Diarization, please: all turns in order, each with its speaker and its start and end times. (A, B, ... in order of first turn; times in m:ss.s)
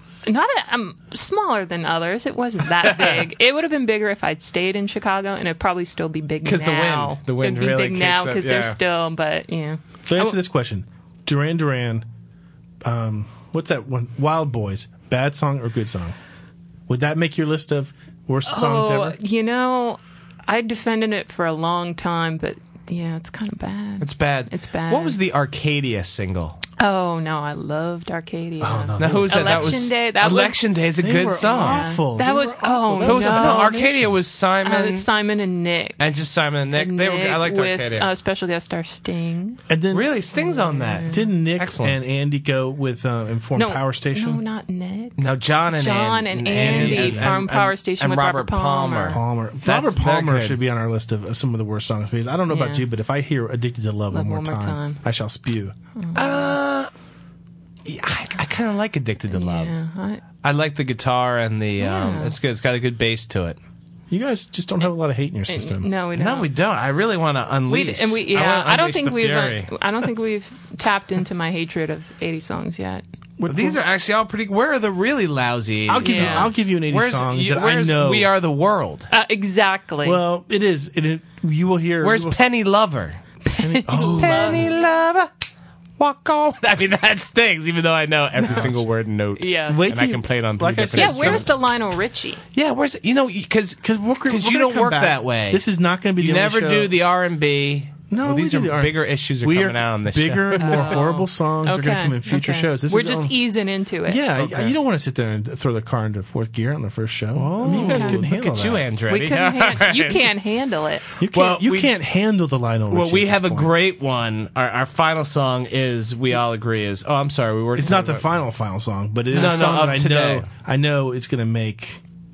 0:00.3-0:10.4 A
0:02.8-0:03.2 B
0:06.4-0:08.8 B
0:10.1-0:12.1 C
0:12.8-0:16.2 C
0:16.9-0:19.2 C
0:18.5-0:25.2 A
0:24.0-0:26.6 B
0:26.8-0:30.6 A
0:28.6-0:30.5 C
0:29.0-0:32.0 B
0:31.0-0:34.2 C
0:31.4-0:33.9 A
0:33.0-0:35.1 B
0:34.6-0:36.0 A
0:36.0-0:38.1 B
0:36.8-0:39.6 A
0:39.7-0:40.1 C
0:39.9-0:42.0 B
0:40.4-0:41.2 A
0:41.1-0:44.4 C
0:43.6-0:49.2 A
0:45.2-0:50.6 B
0:46.5-0:47.5 C
0:49.1-0:55.8 C
0:52.5-0:52.8 A
0:54.1-0:55.0 A
0:56.0-0:56.2 A
0:56.1-0:56.9 B
0:57.8-0:59.7 B
0:59.3-1:00.2 A
1:00.4-1:03.6 B
1:01.8-1:02.4 A
1:04.1-1:05.9 C
1:05.5-1:06.5 A
1:06.2-1:09.8 B
1:07.7-1:13.0 A
1:13.4-1:13.8 C
1:13.5-1:19.1 B
1:15.9-1:18.3 C
1:16.0-1:16.5 A
1:19.1-1:20.2 A
1:20.0-1:22.4 C
1:22.0-1:23.2 B
1:23.5-1:24.6 A
1:23.5-1:24.7 C
1:24.2-1:25.3 B
1:26.0-1:31.6 B
1:28.4-1:28.9 C
1:29.4-1:29.8 A
1:29.7-1:31.6 C
1:31.0-1:32.4 A
1:32.6-1:35.6 B
1:33.8-1:36.9 C
1:36.2-1:41.0 B
1:38.1-1:43.4 C
1:40.6-1:44.3 A
1:44.1-1:48.8 C
1:44.4-1:44.7 B
1:47.4-1:50.3 B
1:47.6-1:48.2 A
1:49.1-1:51.0 A
1:51.2-1:53.7 C
1:51.3-1:51.9 B
1:52.9-1:58.2 B
1:57.8-2:02.0 C
1:59.3-2:00.5 B